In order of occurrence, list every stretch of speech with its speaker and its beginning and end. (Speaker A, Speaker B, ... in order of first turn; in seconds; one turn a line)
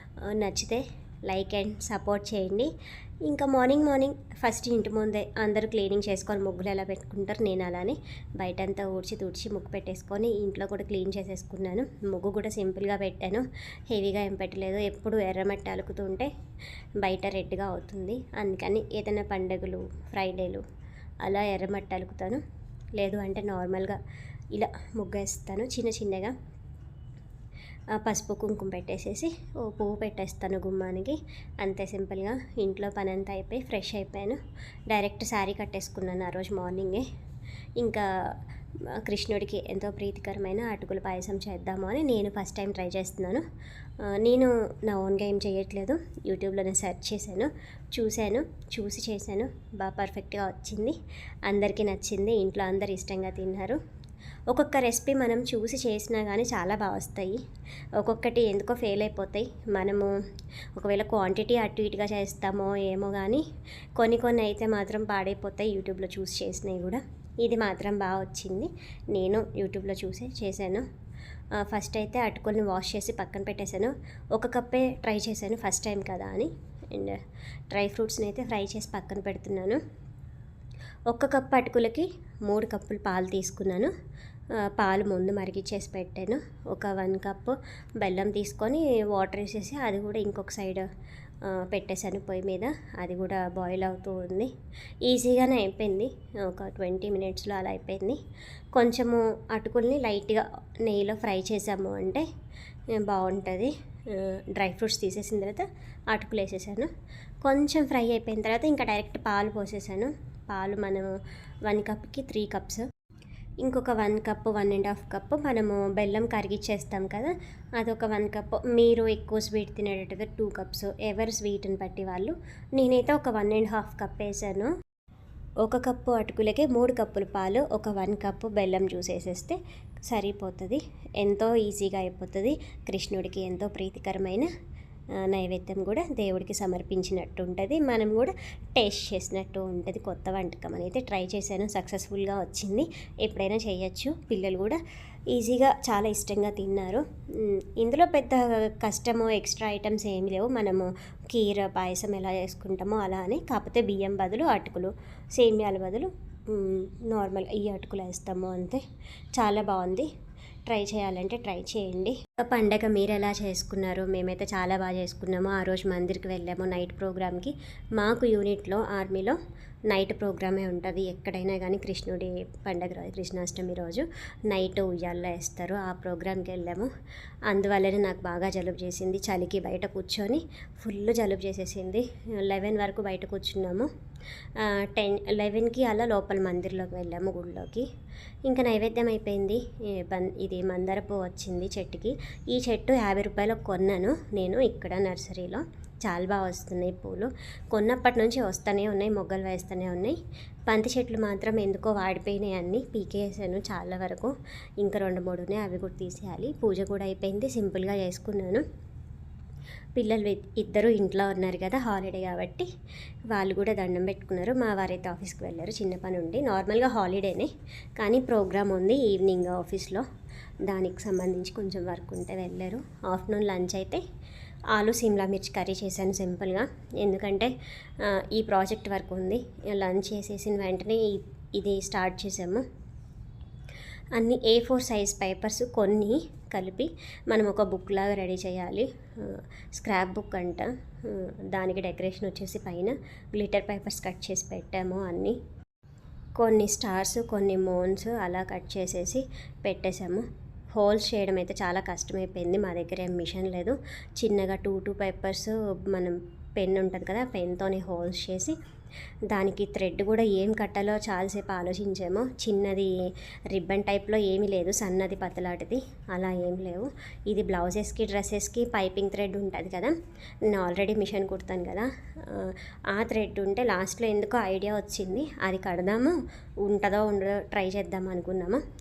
Speaker A: 0.2-2.7
Speaker A: 3.3-16.3
Speaker A: 17.0-20.6
Speaker A: 21.2-22.4
Speaker A: 23.0-24.0
Speaker A: 24.5-26.3
Speaker A: 28.0-37.0
Speaker A: 37.8-38.4
Speaker A: 38.9-43.4
Speaker A: 44.0-53.8
Speaker A: 54.5-57.4
Speaker A: 58.0-60.1
Speaker A: 60.8-63.4
Speaker A: 64.0-70.8
Speaker A: 71.6-77.2
Speaker A: 77.7-79.8
Speaker A: 81.1-83.9
Speaker A: 84.7-90.8
Speaker A: 91.5-94.5
Speaker A: 95.0-98.2
Speaker A: 98.7-102.3
Speaker A: 102.9-106.9
Speaker A: 107.4-111.1
Speaker A: 111.7-112.9
Speaker A: 113.6-124.7
Speaker A: 125.6-134.5
Speaker A: 135.2-144.8
Speaker A: 145.3-158.8
Speaker A: 159.4-160.1
Speaker A: 160.7-169.4
Speaker A: 169.9-176.9
Speaker A: 177.5-183.9
Speaker A: 184.6-187.9
Speaker A: 188.4-208.6
Speaker A: 210.0-212.7
Speaker A: 213.3-220.1
Speaker A: 220.7-224.0
Speaker A: 224.7-232.6
Speaker A: 234.2-245.4
Speaker A: 246.4-258.6
Speaker A: 259.3-262.9
Speaker A: 263.5-269.9
Speaker A: 270.4-278.6